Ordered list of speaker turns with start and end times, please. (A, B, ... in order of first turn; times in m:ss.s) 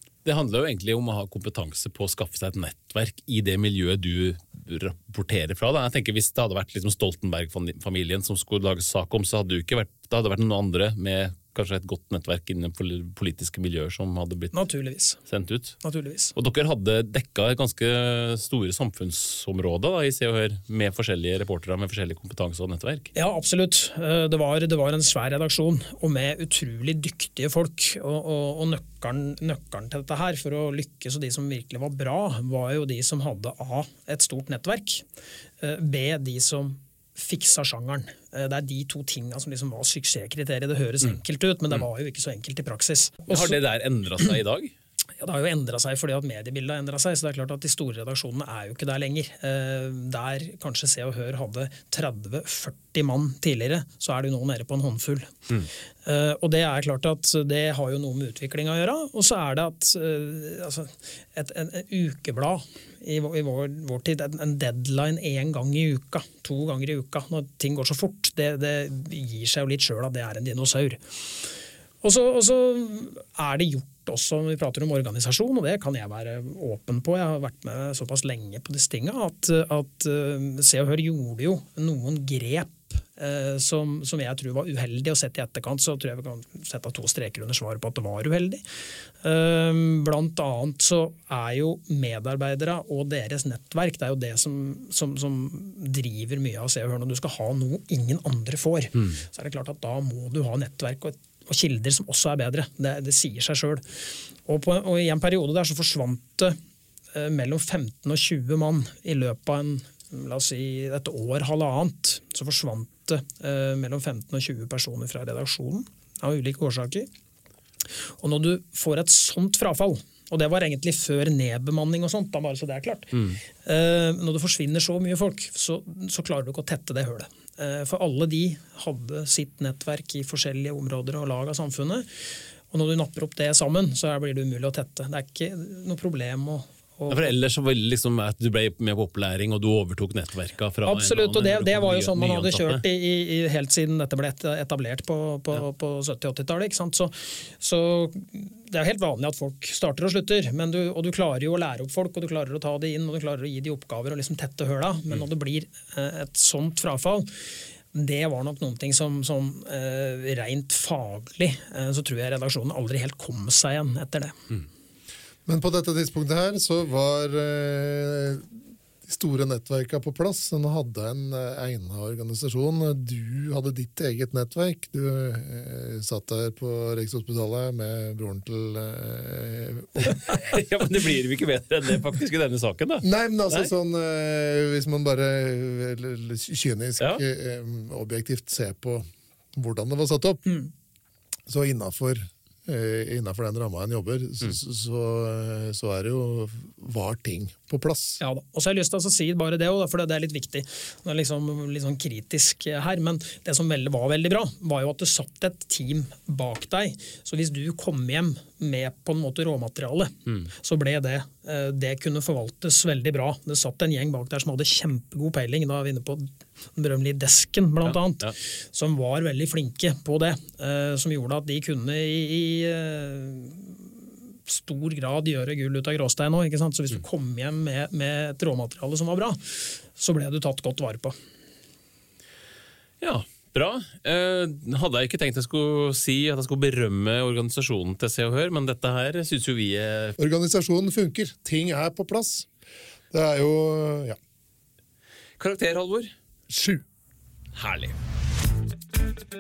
0:00.2-0:14.5 A
0:14.5-0:15.2 B
0:15.3-0:15.8 A
0:15.8-0:16.3 B
0:16.4-0:23.1 A
0:23.2-0:35.0 B
0:35.6-0:43.6 B
0:43.3-0:44.7 A
0:45.2-0:55.5 B
0:56.0-1:11.5 B
1:12.0-1:28.6 B
1:29.2-1:46.6 B
1:47.1-1:57.1 B
1:58.0-2:17.3 B
2:17.1-2:22.8 A
2:20.8-2:37.4 B
2:37.9-2:44.4 B
2:45.5-2:48.5 C
2:49.0-3:00.2 C
3:00.2-3:03.7 A
3:03.0-3:10.4 C
3:11.5-3:18.2 C
3:18.2-3:43.8 B
3:37.8-3:38.3 A
3:44.5-3:51.2 B
3:53.0-4:00.2 A
4:00.2-4:02.5 C
4:03.1-4:04.2 C
4:05.4-4:06.1 A
4:06.5-4:06.8 C
4:07.6-4:08.0 A